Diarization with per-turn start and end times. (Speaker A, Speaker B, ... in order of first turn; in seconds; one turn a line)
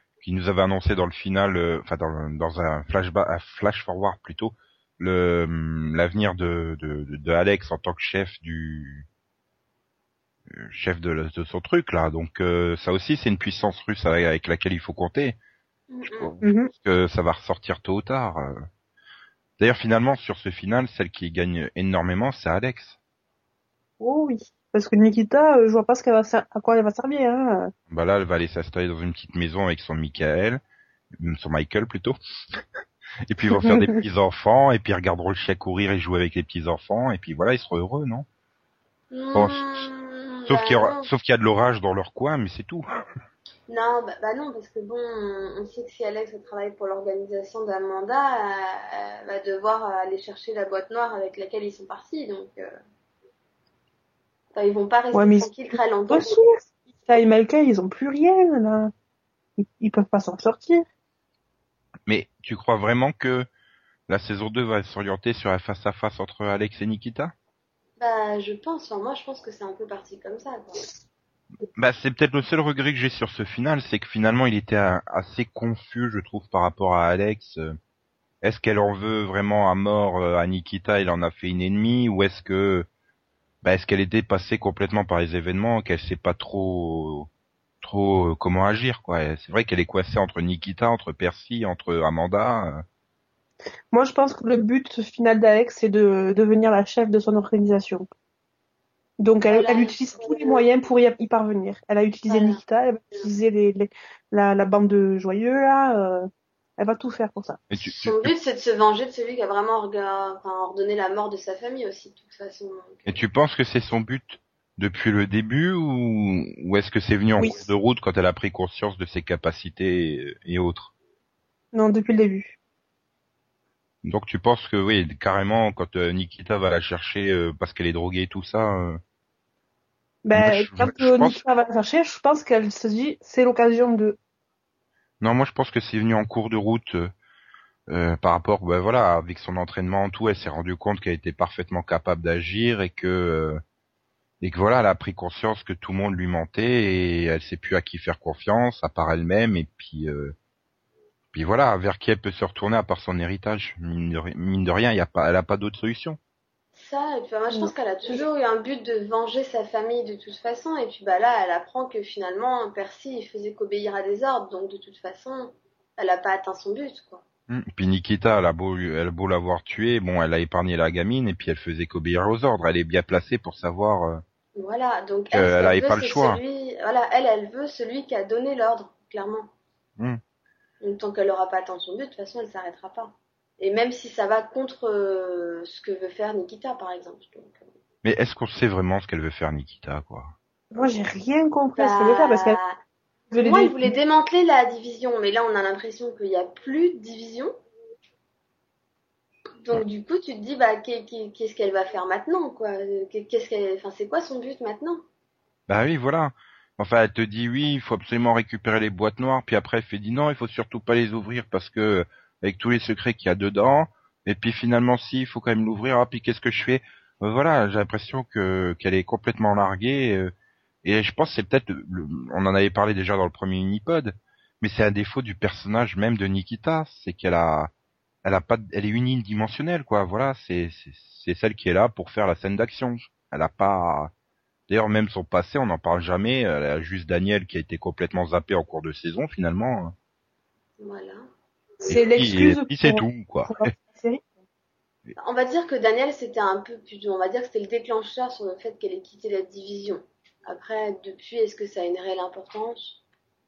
Speaker A: 0.2-9.1
Speaker A: 10.5-15.4
Speaker B: 15.9-16.3
Speaker A: 16.1-18.6
Speaker C: 16.4-16.7
Speaker A: 19.6-23.0
Speaker C: 24.0-27.7
Speaker A: 27.9-30.6
Speaker A: 31.1-32.2
Speaker A: 33.3-38.3
Speaker C: 33.6-34.0
Speaker B: 39.1-41.1
Speaker A: 39.4-39.9
Speaker A: 40.5-42.8
Speaker B: 43.7-52.8
Speaker B: 54.5-56.4
Speaker C: 55.1-58.9
Speaker C: 59.6-60.9
Speaker A: 62.1-63.5
Speaker A: 64.1-67.3
Speaker B: 68.0-70.9
Speaker A: 71.8-77.8
Speaker A: 78.4-82.9
Speaker A: 83.6-87.3
Speaker A: 87.8-92.8
Speaker C: 93.9-98.1
Speaker C: 99.2-107.6
Speaker B: 99.5-100.6
Speaker B: 102.3-102.6
Speaker A: 107.7-108.3
Speaker B: 107.8-113.2
Speaker A: 113.1-120.9
Speaker C: 117.4-117.6
Speaker C: 121.7-122.6
Speaker A: 124.0-129.0
Speaker C: 130.2-134.2
Speaker A: 130.3-131.4
Speaker A: 135.2-137.1
Speaker A: 137.9-143.6
Speaker A: 144.4-150.3
Speaker A: 151.3-156.2
Speaker B: 156.8-167.2
Speaker A: 167.5-174.2
Speaker B: 174.6-179.5
Speaker A: 175.3-176.4
Speaker B: 180.8-187.7
Speaker A: 188.0-190.3
Speaker C: 190.7-192.6
Speaker B: 191.8-192.8
Speaker C: 193.3-193.9
Speaker B: 193.4-197.6
Speaker B: 199.6-205.1
Speaker A: 205.7-227.7
Speaker A: 228.2-234.1
Speaker A: 234.7-239.9
Speaker B: 240.8-241.3
Speaker C: 241.8-244.3
Speaker A: 241.9-243.7
Speaker B: 245.2-253.0